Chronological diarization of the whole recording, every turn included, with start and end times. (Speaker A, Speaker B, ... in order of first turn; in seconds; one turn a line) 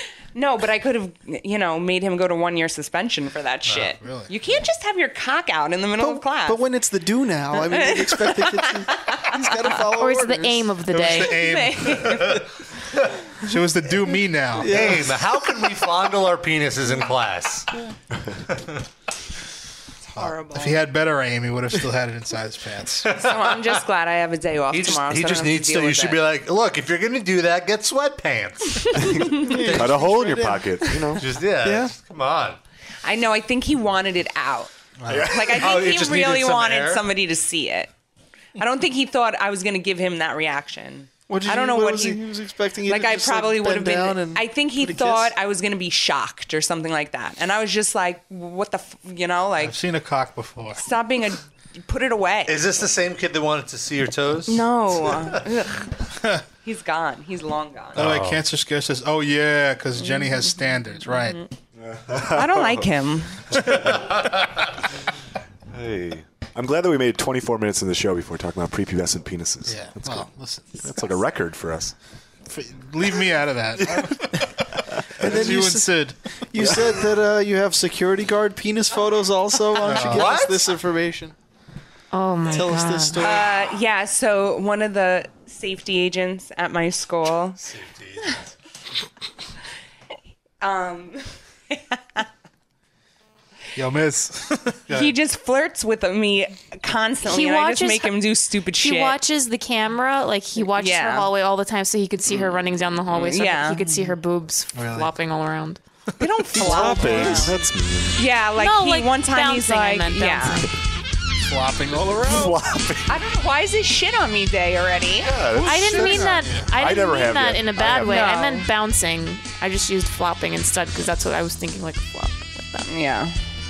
Speaker A: 0.3-6.6
Speaker B: 4.0-4.3
Speaker C: 6.0-10.7
Speaker A: 7.5-9.8
Speaker D: 10.0-11.4
Speaker B: 10.9-12.3
Speaker A: 11.3-12.5
Speaker B: 13.4-14.9
Speaker C: 14.6-15.2
Speaker E: 14.7-17.7
Speaker A: 20.1-20.9
Speaker B: 20.3-23.1
Speaker E: 23.1-23.8
Speaker A: 23.1-26.2
Speaker E: 24.7-30.0
Speaker A: 28.9-29.6
Speaker C: 29.4-31.9
Speaker F: 29.7-31.2
Speaker E: 31.2-32.6
Speaker A: 33.0-34.7
Speaker B: 35.0-35.3
Speaker F: 35.1-35.6
Speaker A: 35.2-37.9
Speaker E: 35.5-37.1
Speaker A: 38.6-42.2
Speaker C: 41.3-45.3
Speaker A: 42.9-49.8
Speaker B: 49.6-50.8
Speaker A: 50.8-52.6
Speaker E: 52.5-55.3
Speaker A: 54.5-55.9
Speaker A: 56.6-58.1
Speaker B: 57.9-61.4
Speaker E: 58.0-58.4
Speaker A: 60.0-61.5
Speaker F: 61.8-62.9
Speaker A: 62.3-63.8
Speaker F: 65.7-70.3
Speaker B: 69.7-70.9
Speaker F: 70.8-71.9
Speaker B: 72.5-74.5
Speaker B: 75.2-76.2
Speaker C: 75.2-81.3
Speaker F: 75.2-75.5
Speaker F: 76.6-76.9
Speaker B: 79.8-80.3
Speaker E: 80.1-80.6
Speaker D: 82.1-83.3
Speaker C: 82.5-83.5
Speaker A: 83.2-87.6
Speaker E: 87.7-88.4
Speaker A: 90.6-92.2
Speaker B: 93.8-95.2
Speaker A: 94.9-99.2
Speaker D: 97.2-98.2
Speaker D: 98.8-105.8
Speaker A: 100.6-101.3
Speaker A: 103.1-104.1
Speaker B: 104.8-105.1
Speaker A: 106.2-107.6
Speaker F: 106.5-108.2
Speaker C: 106.6-107.5
Speaker A: 108.2-110.7
Speaker D: 108.6-110.7
Speaker B: 111.5-112.6
Speaker F: 112.2-113.1
Speaker A: 113.1-115.4
Speaker F: 115.2-118.3
Speaker D: 115.6-122.9
Speaker B: 116.0-116.7
Speaker A: 118.0-118.7
Speaker A: 122.9-123.4